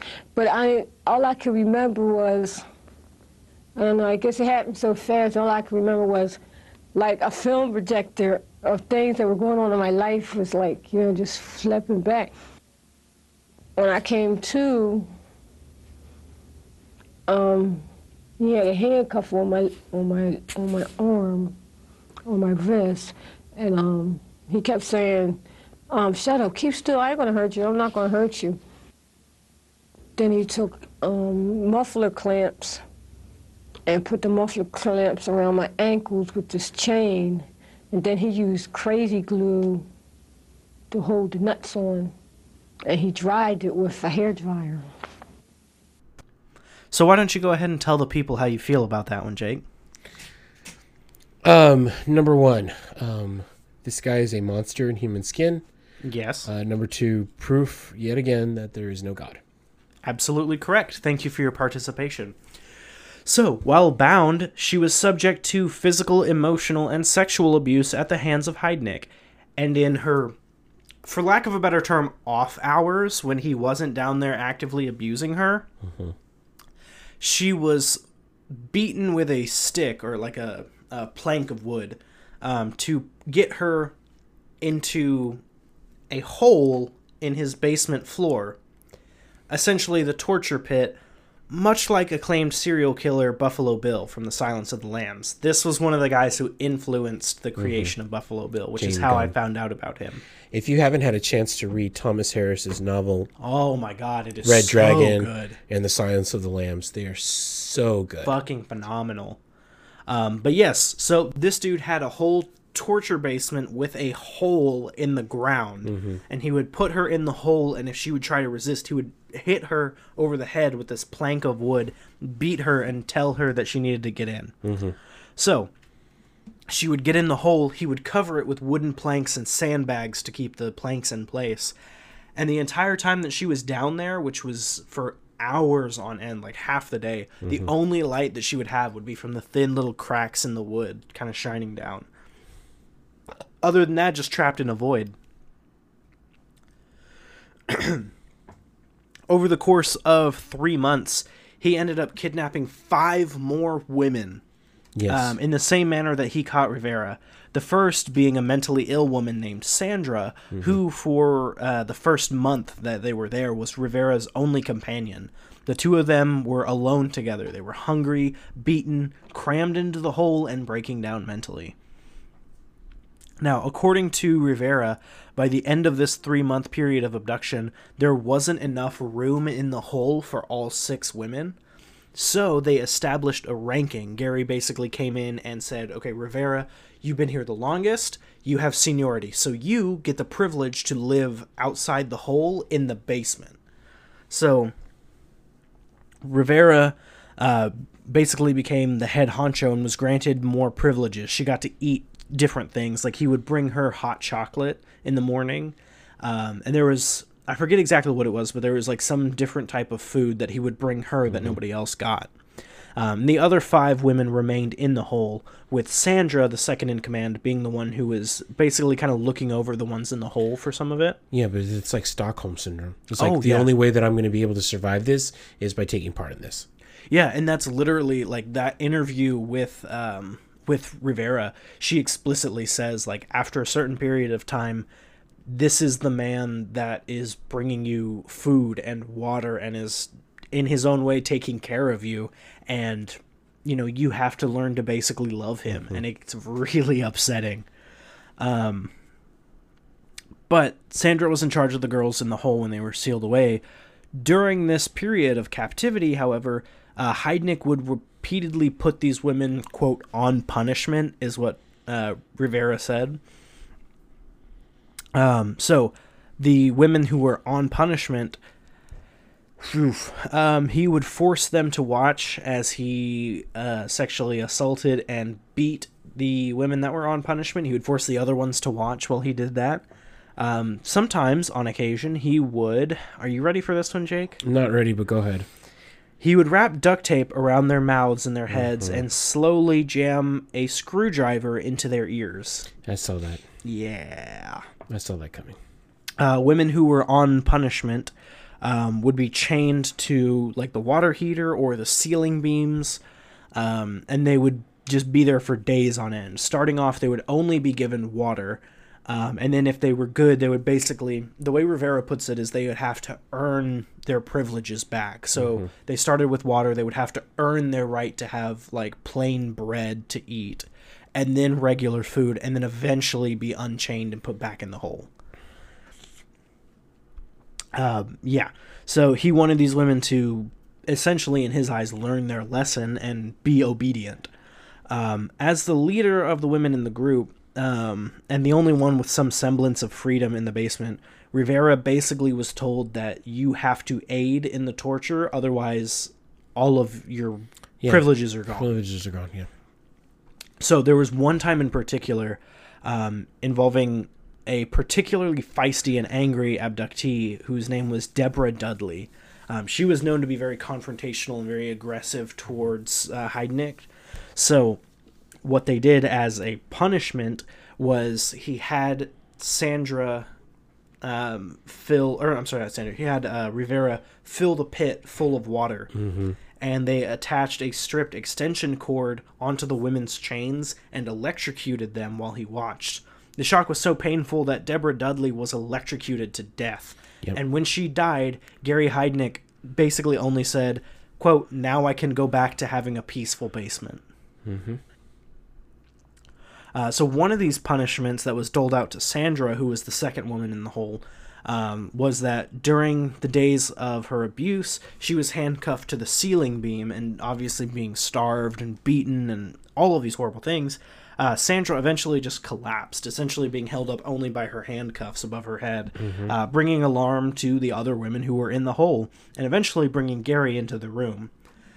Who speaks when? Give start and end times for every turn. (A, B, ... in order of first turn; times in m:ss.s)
0:00.3-0:02.6 A
0:03.8-0:06.4 A
0:06.9-0:12.3 A
0:13.8-0:15.1 A
0:17.3-0:17.8 A
0:18.4-0:21.5 A
0:22.2-0:28.6 A
0:30.2-0:32.8 A
0:33.8-0:39.8 A
0:40.9-0:42.1 A
0:42.8-0:44.9 A
0:46.9-0:49.6 B
0:51.4-0:55.6 C
0:56.0-0:56.5 B
0:56.5-0:59.4 C
1:00.0-1:02.4 B
1:03.2-1:10.3 B
1:11.0-1:15.7 B
1:15.8-1:16.1 C
1:17.2-1:18.0 B
1:18.6-1:23.9 B
1:24.6-1:25.4 B
1:26.1-1:28.6 B
1:29.5-1:31.0 B
1:31.5-1:40.2 B
1:37.6-1:37.9 C
1:38.8-1:39.3 C
1:40.5-1:43.3 C
1:43.4-1:45.6 B
1:44.4-1:48.4 C
1:48.2-1:49.4 B
1:50.1-2:04.6 B
1:55.8-1:56.2 C
2:04.6-2:04.9 C
2:05.4-2:05.7 B
2:06.7-2:11.7 B
2:12.4-2:22.1 B
2:17.4-2:17.7 C
2:23.6-2:25.1 B
2:27.7-2:28.1 B
2:29.3-2:34.4 B
2:34.9-2:35.4 C
2:35.1-2:51.7 B
2:53.4-3:01.6 B
3:02.1-3:13.6 B
3:14.3-3:14.7 B
3:16.2-3:32.3 B
3:31.3-3:31.6 C
3:33.0-3:41.2 B
3:41.3-3:46.6 C
3:43.2-3:43.7 B
3:47.1-3:54.9 B
3:55.5-4:07.6 B
4:08.4-4:08.9 B
4:10.5-4:13.6 B
4:14.2-4:23.2 B
4:25.1-4:28.4 B
4:29.6-4:39.8 B
4:40.4-4:44.4 B
4:44.4-4:45.4 C
4:46.2-4:52.7 B
4:48.5-4:49.0 C
4:52.8-4:53.4 C
4:53.6-4:54.6 B
4:54.9-4:55.6 C
4:56.2-5:03.0 B
5:03.6-5:25.1 B
5:15.4-5:15.6 C
5:27.7-5:34.3 B
5:34.9-5:48.7 B
5:47.8-5:49.5 C
5:50.6-6:04.8 B
6:05.4-6:10.3 B
6:11.0-6:15.9 B
6:15.9-6:16.4 C
6:16.6-6:34.0 B
6:34.4-6:34.8 C
6:36.7-7:01.3 B
6:56.0-6:56.3 C